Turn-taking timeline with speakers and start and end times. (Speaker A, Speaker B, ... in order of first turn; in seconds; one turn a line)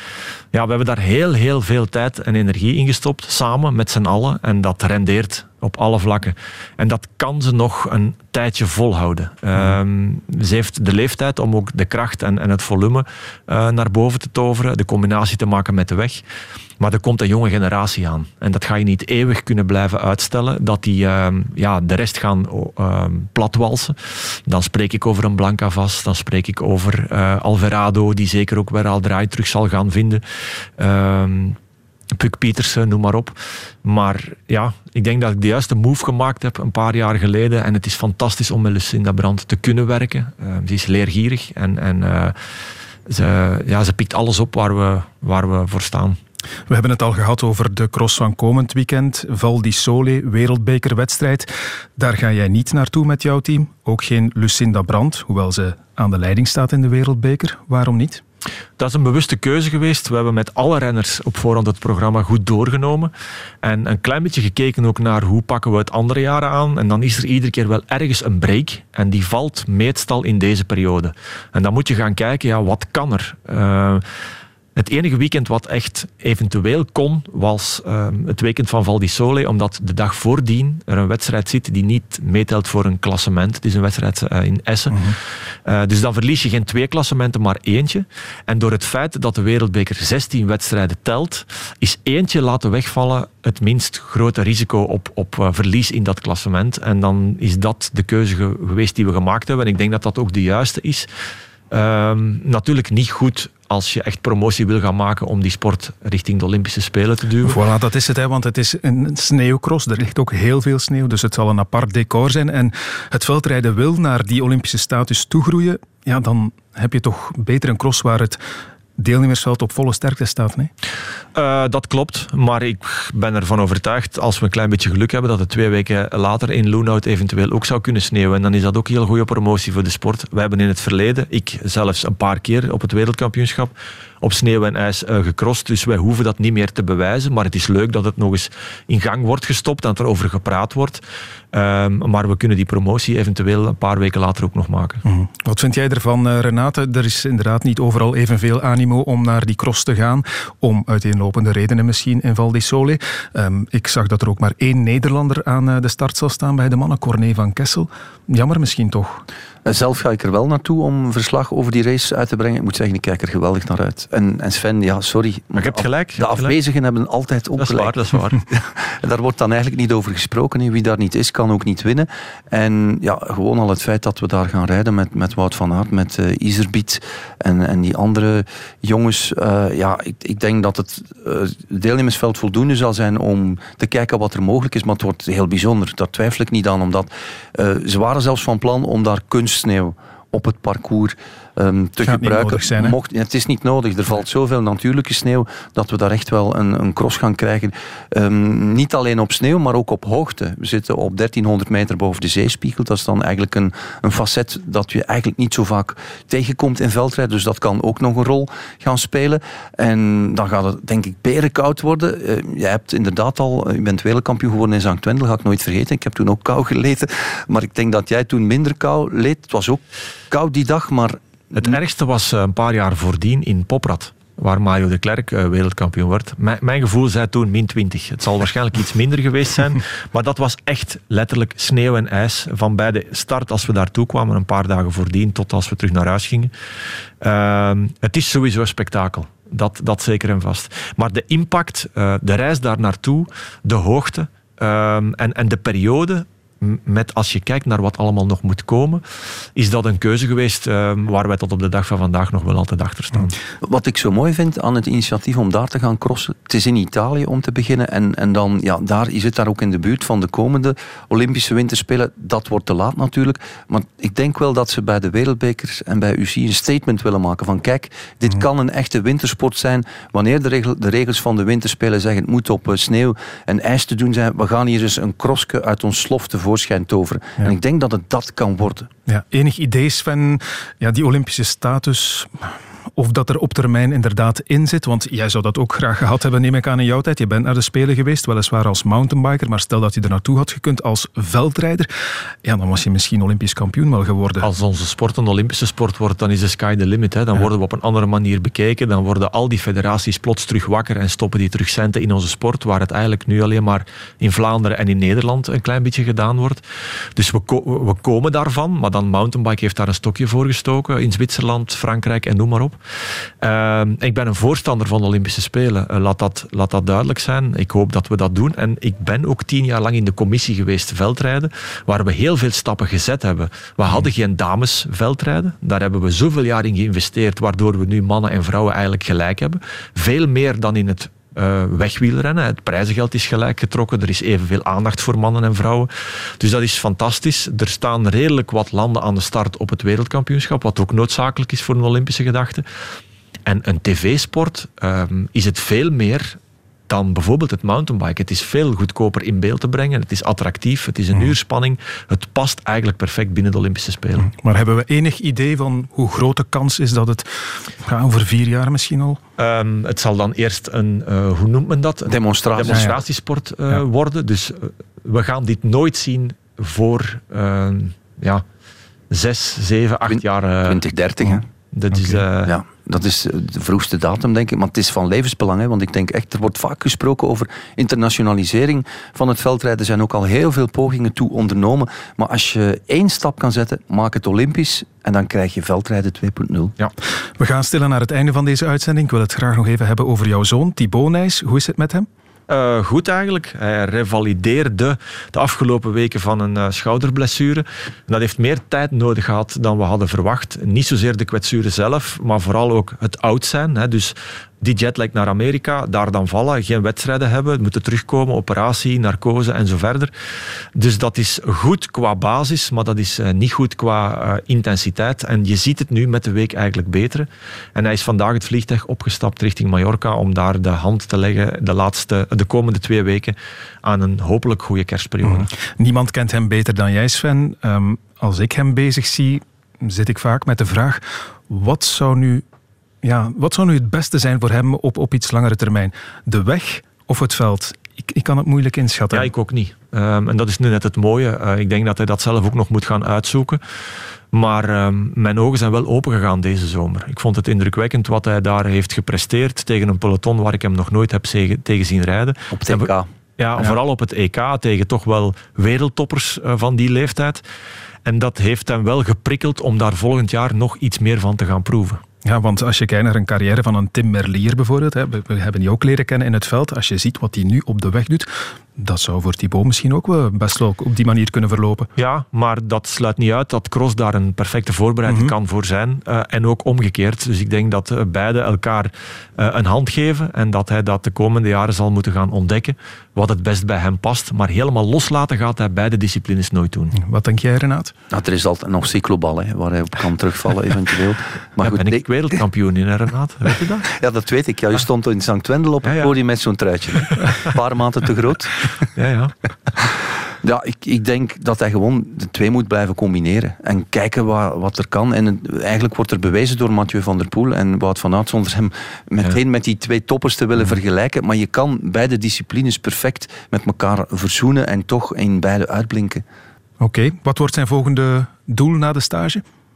Speaker A: 0.5-16.2
Speaker A: 16.8-30.2
Speaker A: 30.8-31.6
Speaker A: 32.2-42.4
Speaker A: 43.1-46.2
Speaker B: 46.7-58.2
Speaker A: 58.8-63.1
Speaker A: 63.6-74.0
Speaker A: 74.8-101.1
Speaker A: 101.7-107.6
Speaker B: 107.4-118.4
Speaker B: 119.0-120.7
Speaker A: 121.3-145.0
Speaker B: 145.1-159.2
Speaker C: 159.7-168.0
Speaker A: 165.6-166.6
Speaker A: 167.6-168.4
Speaker C: 168.8-221.7
Speaker B: 192.1-192.9
Speaker A: 221.6-236.5
Speaker A: 237.2-249.0
Speaker A: 249.6-253.3
Speaker C: 253.6-278.9
Speaker B: 279.1-291.9
Speaker B: 292.4-294.5
Speaker A: 294.4-306.6
Speaker A: 307.2-312.8
Speaker A: 313.4-342.6
Speaker A: 343.5-354.3
Speaker B: 354.2-359.2
Speaker A: 359.4-368.4
Speaker C: 362.1-362.9
Speaker B: 362.7-363.0
Speaker A: 369.1-370.8
Speaker C: 370.1-371.4
Speaker A: 371.7-372.5
Speaker B: 371.9-372.2
Speaker C: 372.4-386.7
Speaker B: 387.4-392.1
Speaker A: 392.5-410.1
Speaker A: 410.8-425.5
Speaker B: 425.2-432.4
Speaker B: 433.0-439.3
Speaker A: 439.1-443.6
Speaker A: 444.3-457.4
Speaker C: 452.5-453.1
Speaker A: 458.1-462.0
Speaker B: 462.2-471.9
Speaker A: 472.0-486.9
Speaker B: 475.1-475.3
Speaker B: 486.9-487.9
Speaker C: 488.1-492.1
Speaker A: 491.6-493.9
Speaker C: 493.9-498.7
Speaker A: 495.8-496.1
Speaker A: 498.9-499.4
Speaker C: 500.4-516.2
Speaker B: 516.8-519.4